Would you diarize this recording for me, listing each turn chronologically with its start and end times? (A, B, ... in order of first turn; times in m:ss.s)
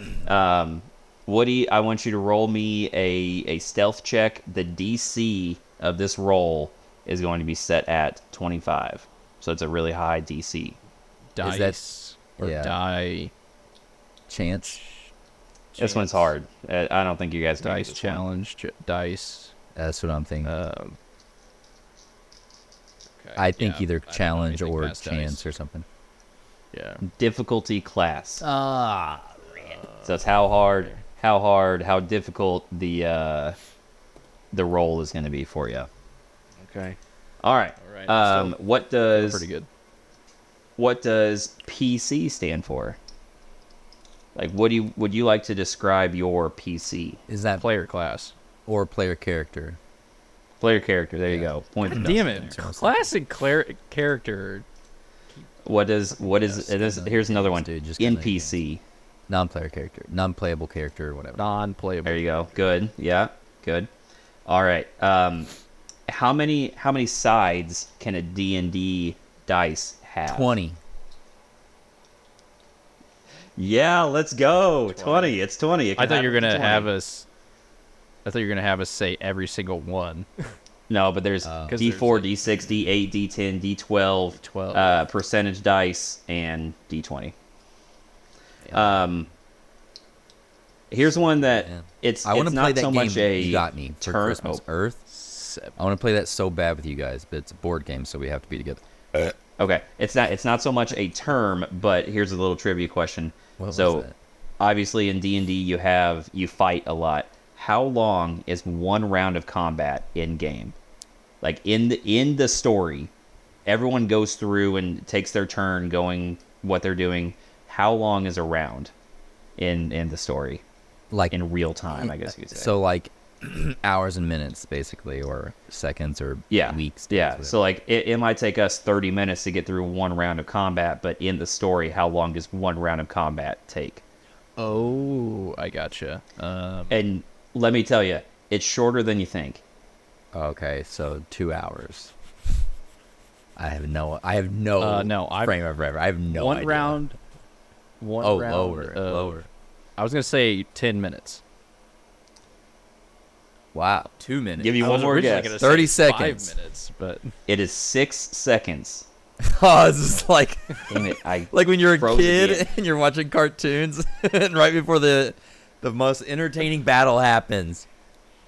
0:00.2-0:10.8 A
0:11.4-0:13.3 B
0:11.4-0:11.8 C
0:12.4-0:12.7 C
0:14.3-0:14.8 C
0:14.7-0:15.1 B
0:15.7-0:16.3 B
0:15.8-0:18.2 A
0:17.6-0:19.5 B
0:19.8-0:20.5 C
0:20.4-0:21.0 B
0:23.2-0:25.4 B
0:23.4-0:25.8 C
0:26.7-0:27.0 B
0:27.0-0:28.4 A
0:28.4-0:29.8 C
0:29.6-0:30.2 B
0:30.0-0:33.6 A
0:34.5-0:35.9 A
0:36.6-0:37.0 B
0:37.4-0:39.4 A
0:37.8-0:38.6 B
0:39.1-0:39.7 B
0:40.8-0:43.0 A
0:44.3-0:47.2 A
0:47.3-0:47.6 C
0:47.6-0:48.3 B
0:48.7-0:49.8 C
0:50.6-0:52.5 A
0:51.3-0:53.1 C
0:51.8-0:54.6 B
0:55.6-0:58.8 A
0:56.4-0:58.6 C
0:59.3-1:01.4 C
1:01.4-1:02.2 B
1:02.0-1:03.9 A
1:04.4-1:05.5 A
1:06.1-1:10.5 A
1:10.2-1:10.8 C
1:13.6-1:16.9 A
1:14.9-1:15.4 B
1:16.0-1:17.2 B
1:18.2-1:20.5 B
1:20.9-1:27.3 A
1:21.4-1:21.8 C
1:21.7-1:22.6 B
1:24.4-1:25.0 B
1:28.7-1:29.0 C
1:28.7-1:29.3 A
1:30.9-1:34.6 A
1:31.4-1:35.0 C
1:35.1-1:35.7 B
1:35.8-1:39.3 C
1:39.6-1:44.0 A
1:43.6-1:44.1 C
1:44.6-1:50.8 A
1:51.4-1:53.1 A
1:53.6-1:58.9 A
1:59.6-2:00.6 A
2:01.3-2:02.7 A
2:02.0-2:07.6 C
2:06.5-2:14.0 A
2:14.6-2:17.0 B
2:16.9-2:19.6 A
2:20.3-2:22.1 C
2:23.6-2:27.0 C
2:24.8-2:25.6 B
2:26.3-2:27.1 B
2:28.0-2:29.4 B
2:28.2-2:29.4 C
2:30.0-2:31.4 B
2:33.7-2:36.5 C
2:34.6-2:35.6 A
2:34.8-2:37.3 B
2:37.5-2:39.0 A
2:39.4-2:47.9 C
2:40.9-2:42.7 A